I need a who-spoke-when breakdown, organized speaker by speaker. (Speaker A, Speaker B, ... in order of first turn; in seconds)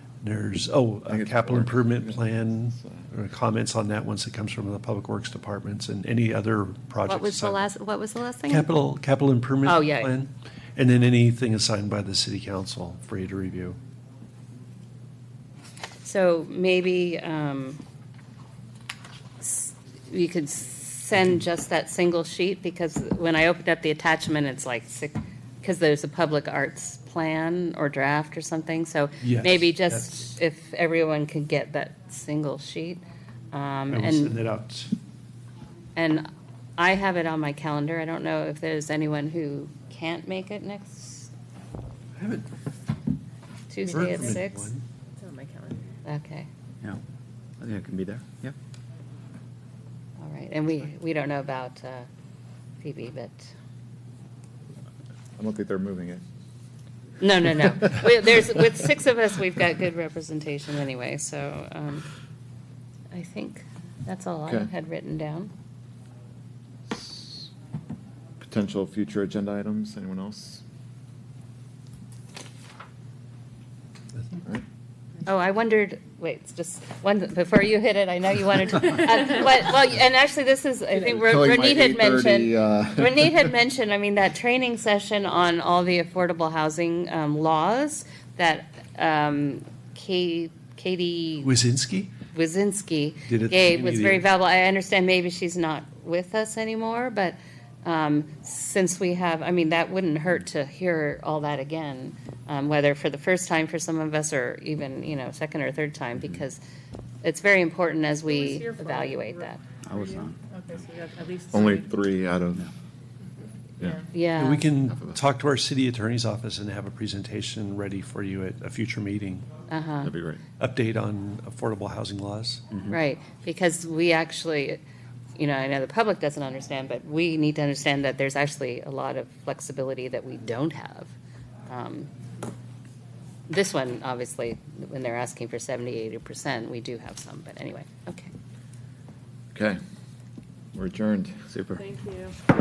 Speaker A: 0.2-7.7, 8.5-13.8, 29.2-30.3, 33.9-34.9, 42.2-42.5, 43.9-44.8, 91.4-92.1, 93.3-94.2, 114.3-119.5, 120.6-122.7
Speaker B: 1.1-3.1, 55.4-56.2, 66.9-67.5, 68.4-70.6, 81.0-83.5, 111.5-112.7, 120.0-120.4, 139.5-139.8, 140.8-141.5
Speaker C: 7.1-8.7, 9.6-10.2, 16.0-17.8, 19.4-34.3, 36.0-41.3, 43.7-44.7, 46.0-46.5, 50.2-52.1, 52.8-53.5, 57.2-62.1, 63.1-65.5, 75.3-91.5, 92.3-106.6, 107.2-109.6, 114.1-114.7, 119.7-120.1, 122.9-124.8, 125.3-131.1, 131.7-132.1, 133.5-138.3
Speaker D: 44.0-44.4, 45.2-45.8, 108.3-111.9, 141.8-142.4
Speaker E: 47.6-48.6, 109.8-110.4, 122.7-123.0, 141.5-141.8